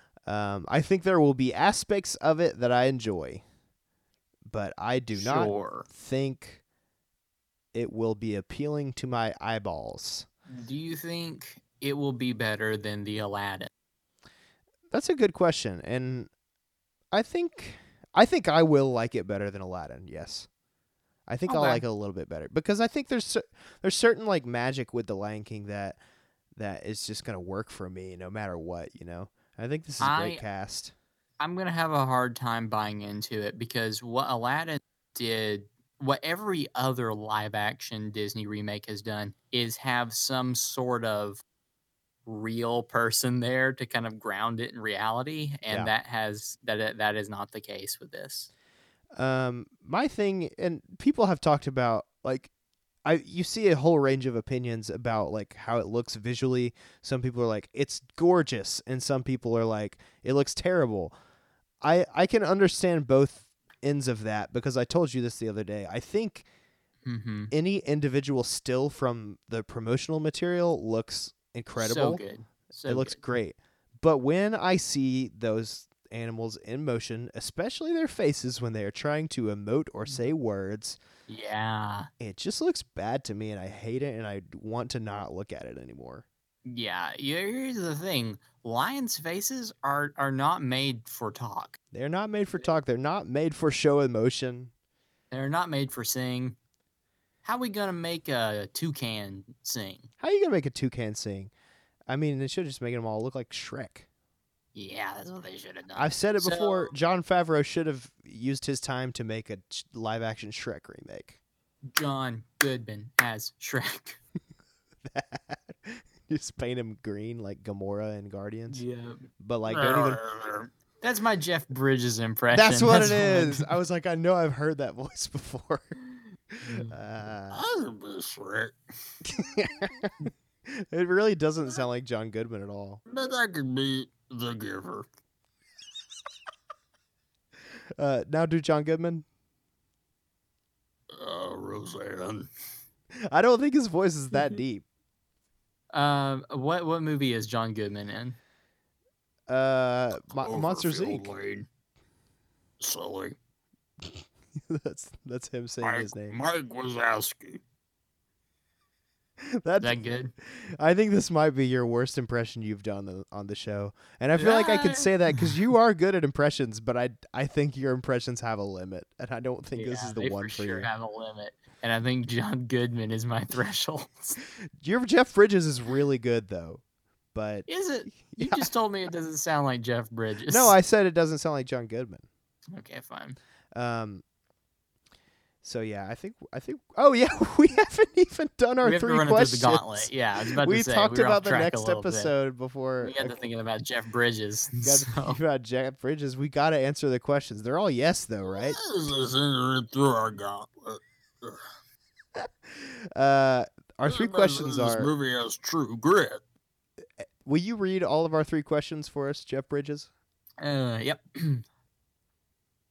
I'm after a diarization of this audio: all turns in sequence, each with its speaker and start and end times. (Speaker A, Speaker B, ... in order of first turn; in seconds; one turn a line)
Speaker A: 0.2-3.4
Speaker A: 4.5-6.6
Speaker B: 5.1-5.9
Speaker A: 7.7-10.2
Speaker B: 10.5-13.7
Speaker A: 14.9-16.3
Speaker A: 17.1-20.5
Speaker A: 21.3-26.0
Speaker B: 21.5-21.8
Speaker A: 26.6-30.9
Speaker B: 30.0-30.4
Speaker B: 31.4-41.4
Speaker B: 42.2-48.5
Speaker A: 49.1-52.5
Speaker A: 53.0-61.1
Speaker A: 61.8-66.5
Speaker B: 67.0-67.5
Speaker A: 67.5-72.2
Speaker B: 71.8-73.2
Speaker A: 72.9-81.0
Speaker B: 81.3-82.1
Speaker A: 82.2-86.2
Speaker B: 86.7-91.8
Speaker A: 91.9-94.7
Speaker B: 95.3-96.5
Speaker B: 97.4-100.1
Speaker A: 100.2-101.5
Speaker A: 102.1-104.0
Speaker B: 104.7-106.9
Speaker A: 106.0-111.4
Speaker B: 111.9-114.2
Speaker A: 115.0-118.8
Speaker B: 118.7-119.2
Speaker A: 119.4-120.2
Speaker C: 119.7-120.7
Speaker B: 121.0-123.7
Speaker A: 122.5-125.9
Speaker B: 126.6-126.9
Speaker A: 126.8-127.6
Speaker C: 127.5-128.7
Speaker A: 129.2-130.1
Speaker A: 130.7-133.0
Speaker C: 133.1-135.1
Speaker A: 138.0-139.2
Speaker C: 141.1-142.5
Speaker A: 143.2-144.8
Speaker B: 145.9-148.4
Speaker A: 149.5-151.3
Speaker C: 150.4-151.7
Speaker C: 152.8-153.4
Speaker A: 154.1-156.4
Speaker C: 155.8-157.6
Speaker A: 159.4-170.9
Speaker B: 159.8-160.3
Speaker B: 164.4-165.5
Speaker B: 169.7-174.4
Speaker A: 174.8-176.8
Speaker A: 177.3-178.7
Speaker B: 177.7-180.7
Speaker A: 180.5-182.2
Speaker B: 182.7-183.4
Speaker A: 183.7-184.2
Speaker A: 185.6-193.3
Speaker B: 188.8-192.3
Speaker B: 193.0-195.4
Speaker A: 194.8-198.8
Speaker C: 198.5-201.6
Speaker A: 202.4-205.1
Speaker C: 204.1-206.4
Speaker A: 207.4-210.1
Speaker B: 210.6-211.6